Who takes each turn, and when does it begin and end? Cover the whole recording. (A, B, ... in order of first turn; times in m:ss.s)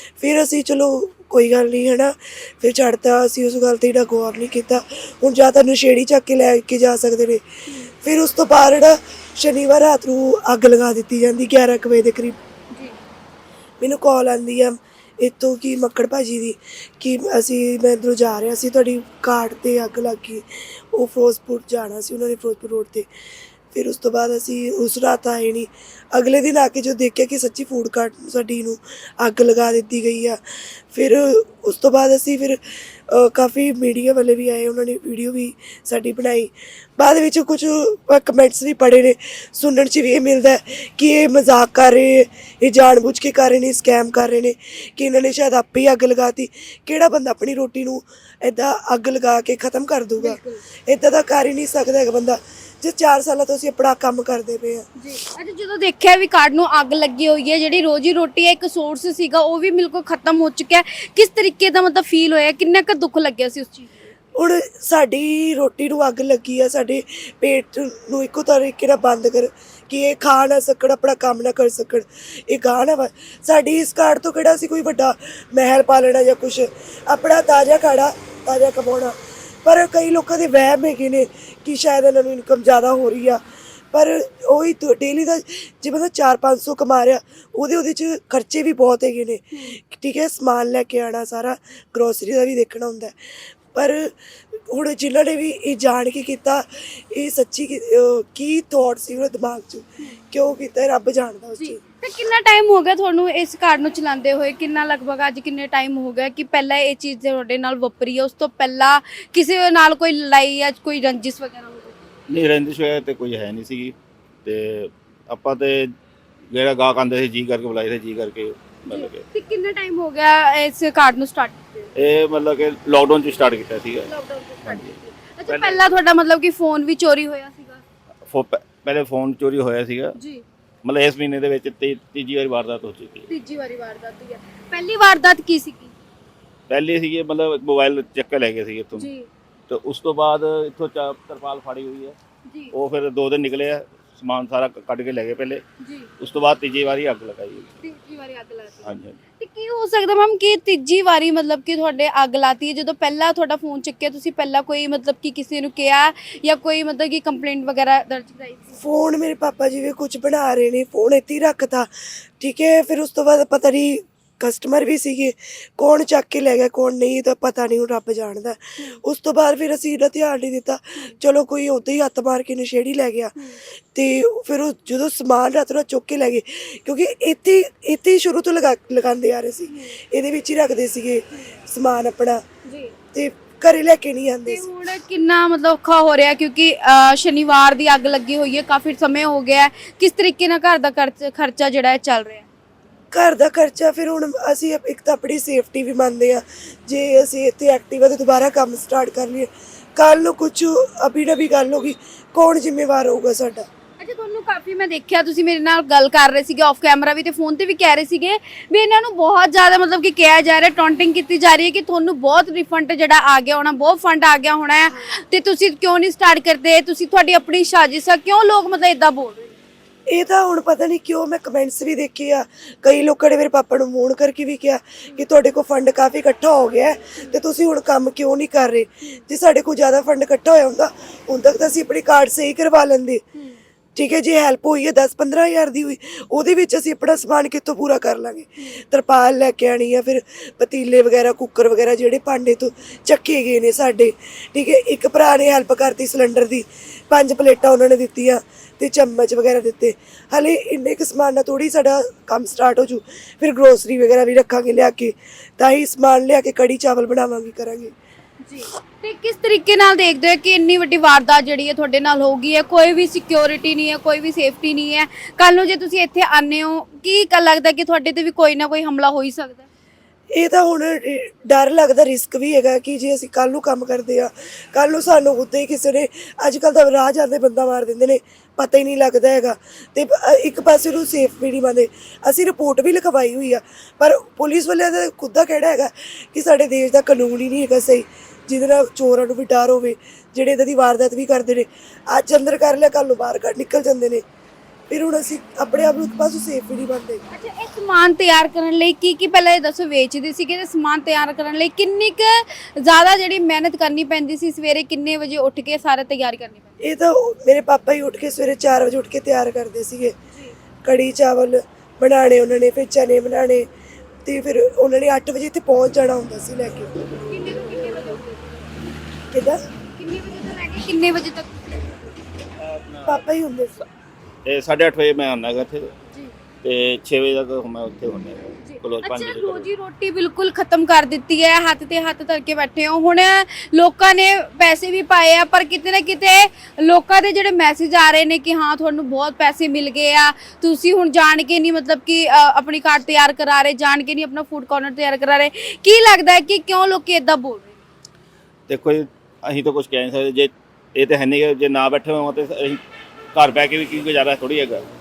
0:00.2-0:07.4 A
0:08.0-0:12.4 A
0:13.8-0:23.1 A
0:23.7-0:30.4 A
0:30.9-0:54.8 A
0:50.2-0:50.6 B
0:55.0-1:04.1 B
1:04.4-1:41.8 A
1:29.5-1:29.8 B
1:41.6-1:52.0 B
1:52.3-1:55.9 C
1:56.5-1:59.2 C
1:58.9-2:01.9 B
2:01.9-2:04.1 C
2:04.0-2:07.8 B
2:04.6-2:06.0 C
2:08.2-2:10.2 C
2:10.2-2:10.4 B
2:10.8-2:13.3 C
2:13.3-2:15.9 B
2:16.7-2:19.1 C
2:19.0-2:19.3 B
2:19.7-2:22.2 C
2:22.5-2:22.7 B
2:22.7-2:25.6 C
2:25.8-2:26.1 B
2:26.2-2:27.7 C
2:27.8-2:38.8 B
2:28.8-2:29.2 C
2:38.7-2:53.4 A
2:53.9-3:02.4 A
2:59.7-3:00.0 B
3:02.6-3:02.9 B
3:03.1-3:04.6 A
3:04.4-3:12.4 B
3:13.1-3:23.7 A
3:24.0-3:39.6 B
3:40.1-3:53.2 A
3:53.3-3:53.6 B
3:54.0-4:17.9 A
4:18.4-4:29.6 B
4:30.3-4:54.2 A
4:54.9-4:57.2 A
4:57.3-5:06.8 B
5:06.8-5:10.1 A
5:10.8-5:13.7 A
5:14.2-5:16.9 A
5:17.3-5:18.7 B
5:19.3-5:19.6 A
5:20.0-5:21.9 B
5:22.6-5:23.3 C
5:23.0-5:23.8 A
5:24.4-5:25.9 C
5:26.1-5:26.3 B
5:26.6-5:29.7 C
5:28.6-5:47.8 B
5:48.7-5:52.8 C
5:53.3-5:54.8 C